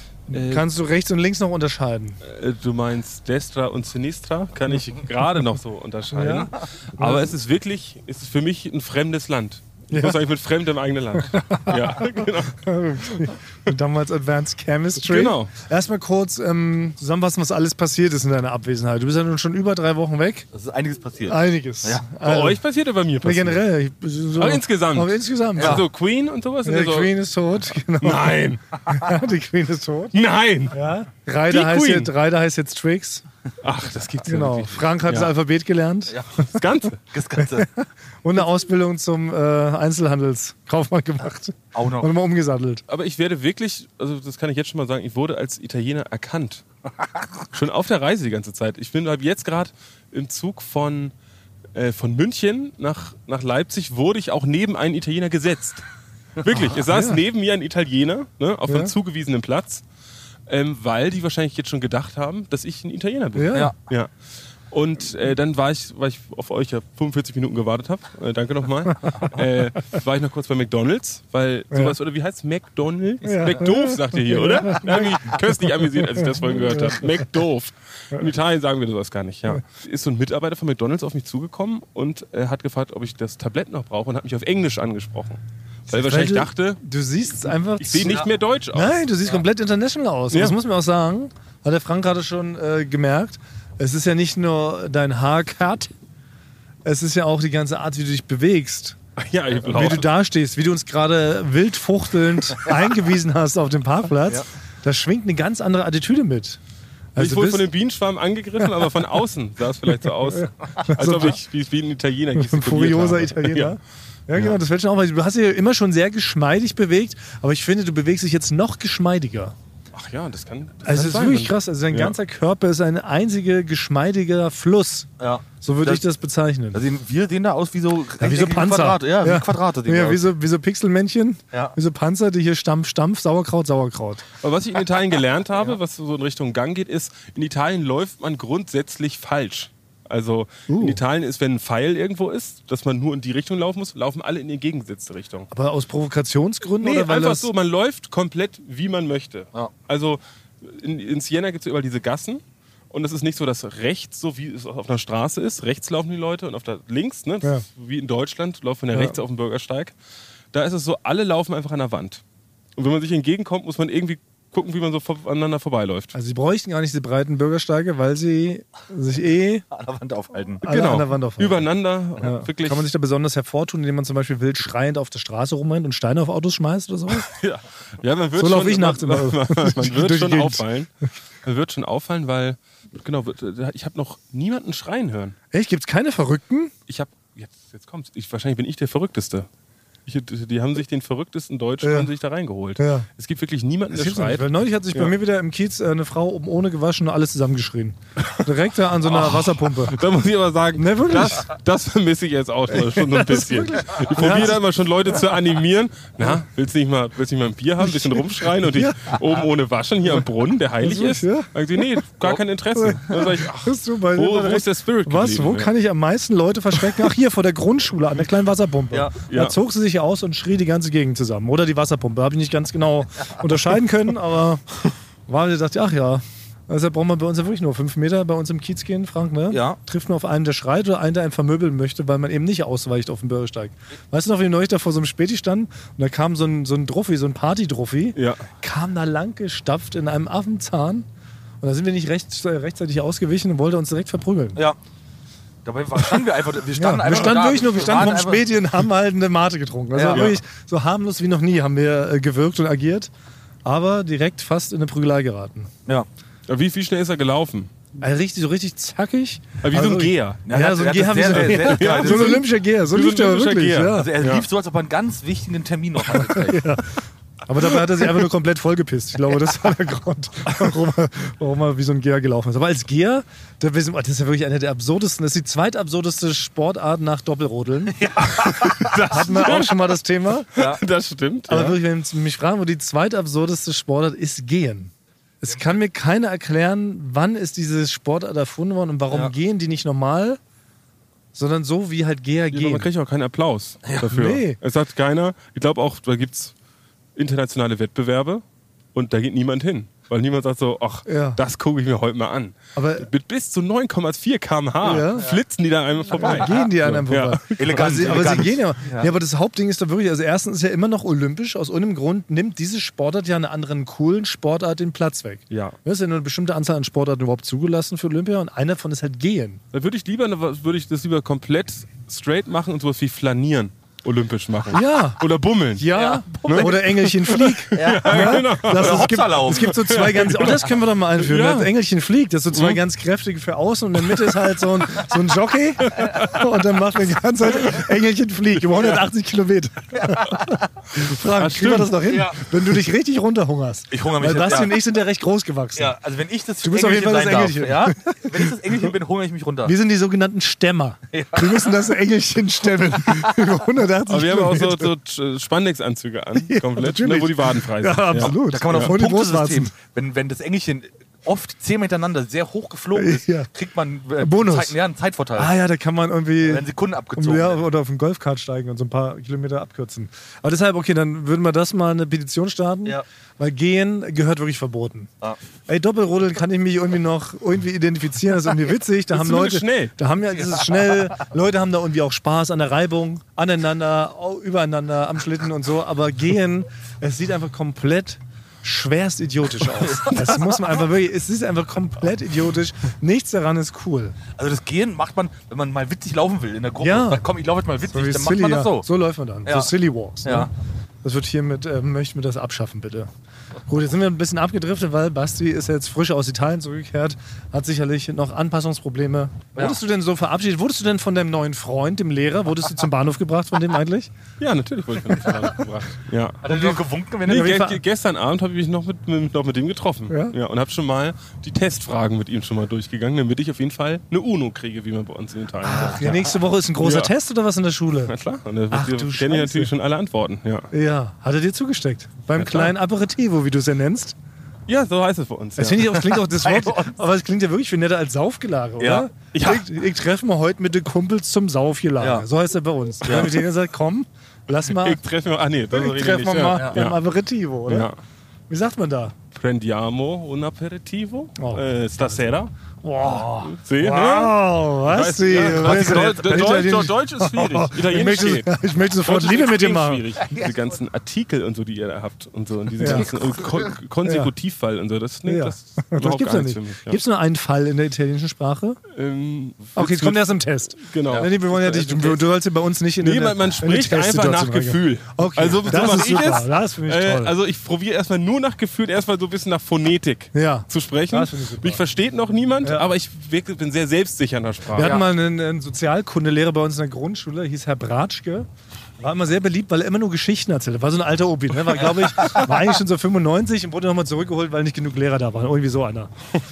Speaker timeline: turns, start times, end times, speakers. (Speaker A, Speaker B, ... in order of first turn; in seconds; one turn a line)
Speaker A: 0.3-2.2
Speaker B: 0.3-0.7
Speaker B: 2.2-13.1
Speaker A: 6.1-7.3
Speaker A: 9.9-10.2
Speaker A: 11.2-20.4
Speaker B: 15.0-15.5
Speaker C: 20.5-22.1
Speaker A: 21.3-22.6
Speaker B: 22.2-23.6
Speaker A: 23.2-25.9
Speaker B: 24.3-27.1
Speaker C: 25.6-25.8
Speaker A: 26.6-30.2
Speaker B: 28.0-28.8
Speaker B: 30.1-30.8
Speaker A: 30.7-33.2
Speaker B: 31.5-32.1
Speaker B: 33.6-35.3
Speaker A: 34.2-36.5
Speaker B: 36.5-37.0
Speaker C: 37.1-37.7
Speaker A: 37.4-42.8
Speaker C: 41.7-42.1
Speaker B: 42.9-46.6
Speaker B: 47.5-51.1
Speaker B: 51.7-55.8
Speaker B: 56.4-59.8
Speaker A: 56.5-57.2
Speaker A: 58.7-58.9
Speaker B: 60.5-64.1
Speaker A: 63.3-63.7
Speaker B: 64.7-86.8
Speaker A: 71.7-72.0
Speaker A: 73.2-77.2
Speaker A: 85.9-95.9
Speaker B: 87.8-89.0
Speaker B: 90.3-90.6
Speaker A: 96.8-99.0
Speaker B: 99.2-100.1
Speaker A: 99.6-106.6
Speaker A: 107.2-107.7
Speaker B: 107.2-113.8
Speaker A: 108.6-108.9
Speaker A: 110.4-111.4
Speaker A: 112.3-119.5
Speaker B: 119.9-122.2
Speaker A: 120.8-125.1
Speaker C: 125.2-126.0
Speaker A: 125.6-126.8
Speaker C: 126.7-130.2
Speaker A: 128.2-134.2
Speaker B: 134.4-145.5
Speaker A: 140.7-141.0
Speaker A: 145.5-147.5
Speaker B: 146.8-159.9
Speaker A: 158.9-159.2
Speaker B: 160.5-162.2
Speaker B: 162.8-166.1
Speaker A: 166.1-169.7
Speaker C: 169.7-170.6
Speaker A: 170.6-171.7
Speaker B: 170.7-172.9
Speaker A: 172.2-177.3
Speaker B: 177.1-180.9
Speaker A: 178.4-180.7
Speaker B: 181.4-185.3
Speaker A: 185.5-186.7
Speaker B: 186.9-189.5
Speaker B: 190.1-195.2
Speaker A: 191.8-192.1
Speaker A: 192.8-193.1
Speaker A: 193.9-200.0
Speaker B: 199.1-215.7
Speaker A: 200.8-201.5
Speaker A: 202.7-204.6
Speaker A: 207.8-209.2
Speaker A: 210.8-212.0
Speaker A: 212.8-224.6
Speaker B: 219.3-219.6
Speaker A: 225.3-241.1
Speaker C: 229.5-229.8
Speaker B: 238.2-238.4
Speaker A: 241.6-244.6
Speaker C: 245.7-248.4
Speaker A: 246.7-253.1
Speaker C: 249.9-250.2
Speaker B: 250.1-250.4
Speaker A: 253.7-255.7
Speaker B: 256.5-257.7
Speaker A: 258.0-264.1
Speaker B: 259.6-260.4
Speaker C: 260.4-262.4
Speaker B: 261.3-264.4
Speaker C: 263.9-266.7
Speaker A: 266.1-266.9
Speaker A: 267.5-278.1
Speaker C: 277.9-279.1
Speaker B: 278.2-279.9
Speaker A: 279.0-280.5
Speaker B: 280.5-281.8
Speaker C: 280.6-280.8
Speaker A: 281.5-290.4
Speaker A: 291.3-292.9
Speaker B: 292.5-296.5
Speaker A: 294.1-294.6
Speaker B: 297.2-298.4
Speaker B: 298.9-308.0
Speaker A: 301.1-301.4
Speaker A: 302.7-303.1
Speaker A: 304.8-305.4
Speaker A: 306.1-319.6
Speaker C: 307.6-309.1
Speaker B: 315.5-315.8
Speaker B: 319.7-325.9
Speaker A: 324.7-325.2
Speaker A: 325.7-345.9
Speaker C: 325.9-326.9
Speaker B: 326.4-331.7
Speaker C: 327.7-329.8
Speaker B: 332.5-332.8
Speaker B: 334.1-334.4
Speaker B: 335.8-336.4
Speaker B: 341.0-342.1
Speaker C: 342.1-342.4
Speaker C: 343.9-344.8
Speaker C: 345.8-349.7
Speaker A: 346.6-348.6
Speaker A: 349.7-354.9
Speaker C: 351.1-351.8
Speaker B: 354.1-358.9
Speaker A: 356.4-359.7
Speaker C: 358.1-365.5
Speaker A: 362.9-363.5
Speaker A: 364.2-364.8
Speaker A: 365.4-375.1
Speaker C: 366.4-367.6
Speaker A: 375.7-394.2
Speaker B: 379.1-379.9
Speaker C: 389.9-390.2
Speaker C: 394.4-398.9
Speaker A: 396.8-397.2
Speaker A: 397.9-400.5
Speaker C: 399.4-399.7
Speaker C: 400.2-400.5
Speaker A: 401.0-403.1
Speaker A: 403.7-414.1
Speaker B: 414.4-416.4
Speaker C: 416.4-417.6
Speaker A: 416.5-417.8
Speaker B: 417.3-426.1
Speaker A: 420.1-420.4
Speaker A: 425.6-428.1
Speaker C: 425.7-426.3
Speaker B: 426.8-427.1
Speaker B: 428.1-430.7
Speaker A: 428.7-429.7
Speaker A: 430.7-434.2
Speaker B: 432.4-432.7
Speaker B: 434.7-436.0
Speaker A: 435.6-445.0
Speaker C: 436.2-436.9
Speaker C: 438.8-439.1
Speaker B: 439.3-439.7
Speaker C: 442.0-442.2
Speaker C: 443.0-443.3
Speaker B: 444.8-447.0
Speaker A: 445.7-447.9
Speaker C: 446.5-446.8
Speaker B: 447.7-447.9
Speaker A: 448.5-449.2
Speaker B: 449.3-452.5
Speaker A: 451.4-452.2
Speaker A: 452.8-460.1
Speaker B: 453.5-467.0
Speaker C: 455.5-456.6
Speaker A: 462.8-463.1
Speaker A: 464.0-464.3
Speaker A: 465.2-468.8
Speaker B: 468.9-470.2
Speaker A: 469.8-477.3
Speaker B: 470.8-472.2
Speaker B: 473.0-485.0
Speaker C: 475.8-476.2
Speaker A: 480.3-481.8
Speaker A: 482.6-482.9
Speaker A: 484.7-488.5
Speaker A: 489.0-496.1